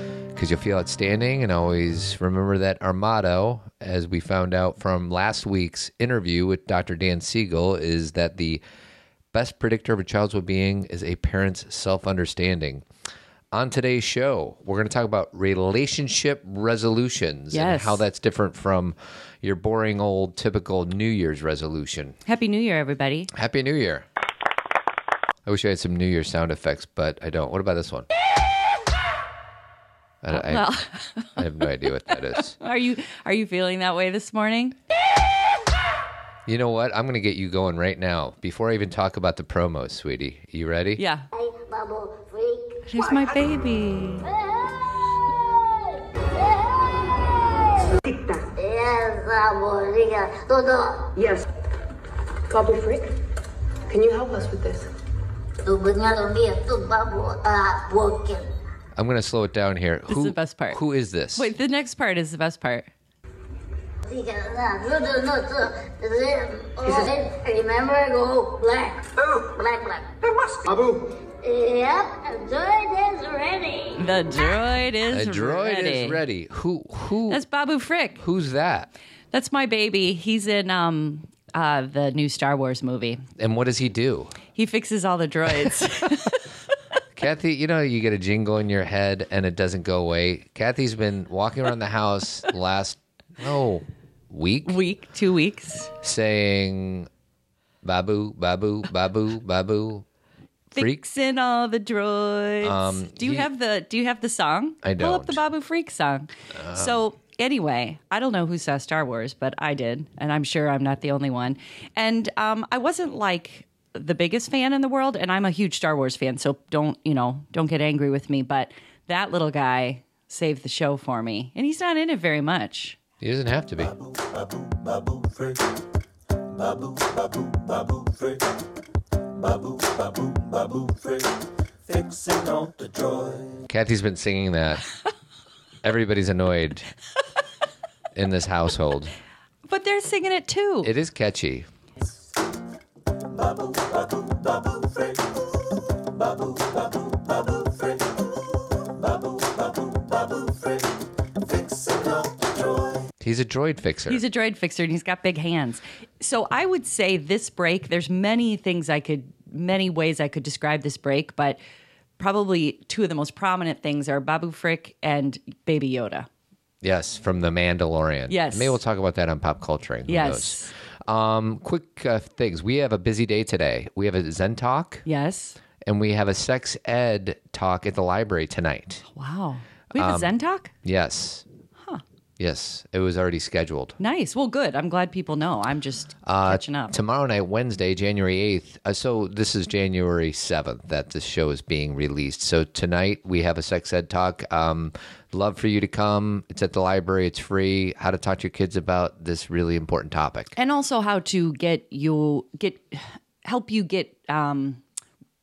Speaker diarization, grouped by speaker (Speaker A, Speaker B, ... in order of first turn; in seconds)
Speaker A: 0.3-8.6, 9.3-12.8, 13.5-22.2, 23.3-24.0, 25.4-28.1, 30.2-30.7, 31.4-32.6, 36.5-41.0, 59.0-61.5, 75.1-77.4, 78.2-78.9, 83.4-84.4, 87.2-94.8, 96.0-97.1, 97.8-100.0, 102.6-103.5, 104.8-105.4, 106.5-107.0, 123.2-123.9, 133.7-134.9, 135.8-136.9, 138.1-139.1, 140.8-141.7, 153.2-154.2, 166.8-175.0, 175.8-179.0, 180.0-181.4, 182.4-184.0, 186.2-200.5
Speaker B: 17.5-18.0, 22.2-23.3, 30.3-34.8, 41.0-41.3, 42.9-44.3, 60.1-60.8, 61.3-62.9, 74.0-76.2, 77.3-78.2, 79.3-83.2, 84.5-86.5, 94.6-95.9, 100.7-123.0, 139.7-140.9, 154.1-161.6, 162.2-166.3, 168.3-168.8, 170.1-170.7, 175.1-175.6, 179.1-180.7, 184.0-186.9, 200.5-204.8
Speaker C: 41.3-42.8, 48.5-51.1, 55.6-58.5, 64.0-70.9, 71.4-74.0
Speaker D: 48.0-48.5, 51.1-51.5, 52.5-53.2, 53.9-54.9
Speaker E: 123.8-125.8, 126.5-128.6, 129.2-133.6, 143.3-153.1